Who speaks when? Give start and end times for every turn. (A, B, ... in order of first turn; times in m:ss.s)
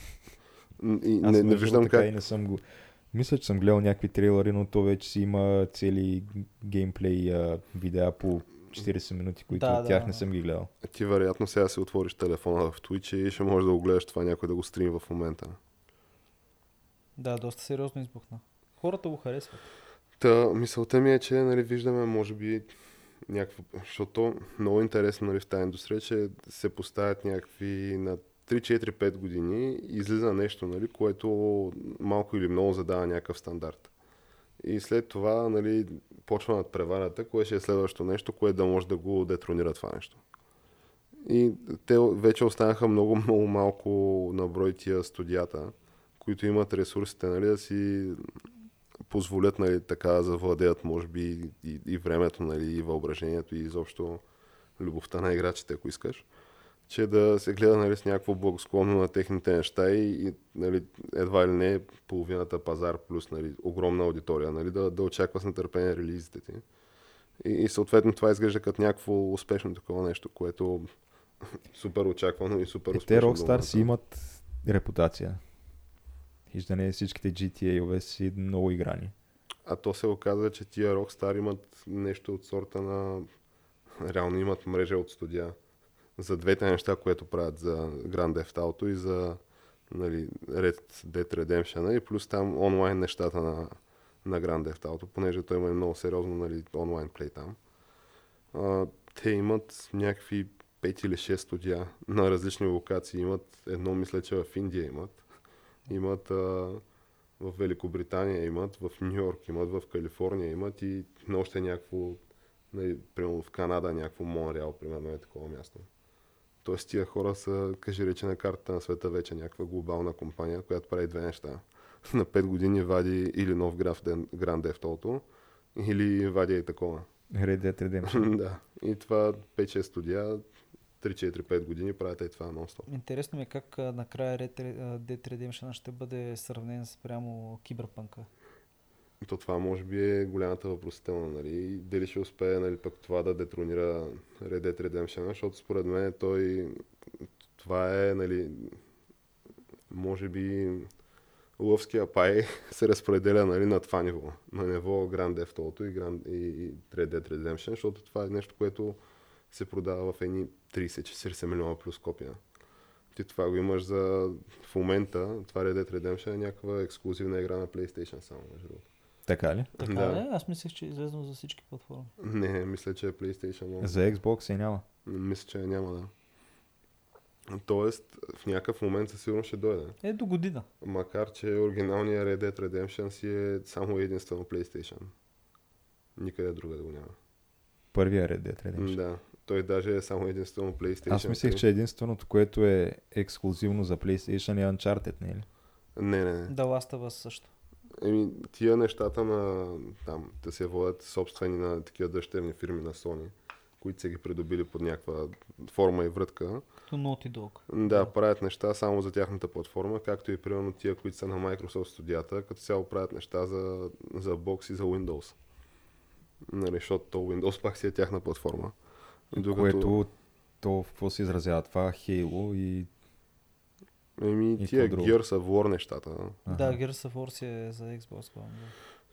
0:00.8-0:02.1 A
0:01.2-0:10.7 B
0:09.5-0:10.2 C
0:10.8-0:15.6 A
0:17.2-0:19.6 C
0:20.2-0:22.7 A
0:23.3-0:33.9 A
0:34.6-0:40.2 A
0:41.2-0:48.2 A
0:49.1-0:54.2 A
0:54.8-0:56.2 A
0:56.9-1:06.6 A
1:07.4-1:10.9 A
1:11.7-1:13.9 A
1:12.9-1:15.4 B
1:16.5-1:19.1 B
1:19.6-1:23.3 A
1:24.0-1:25.6 A
1:26.2-1:37.6 A
1:38.5-1:45.2 A
1:45.9-1:46.8 A
1:47.4-1:52.2 A
1:52.7-1:55.9 A
1:56.6-2:07.1 A
2:07.3-2:08.3 B
2:08.0-2:10.4 A
2:11.0-2:12.9 A
2:12.9-2:18.3 C
2:19.2-2:26.8 A
2:27.6-2:28.8 A
2:29.9-2:30.9 A
2:31.6-2:39.0 A
2:39.5-2:42.4 A
2:43.1-2:48.8 A
2:49.3-2:49.7 B
2:49.8-2:50.2 A
2:49.8-2:52.1 C
2:52.2-2:53.9 A
2:53.8-2:54.8 B
2:55.0-2:56.1 A
2:57.5-3:00.0 A
3:00.0-3:00.6 C
3:00.8-3:05.1 A
3:06.2-3:07.1 A
3:07.9-3:09.0 B
3:08.8-3:11.6 A
3:11.1-3:15.4 B
3:16.0-3:16.5 A
3:16.5-3:17.5 C
3:18.0-3:26.6 A
3:26.9-3:28.1 C
3:27.7-3:35.4 A
3:36.5-3:38.7 A
3:39.3-3:39.9 A
3:39.4-3:42.9 B
3:44.2-3:46.4 A
3:44.6-3:45.1 B
3:46.4-3:46.8 B
3:46.5-3:48.7 C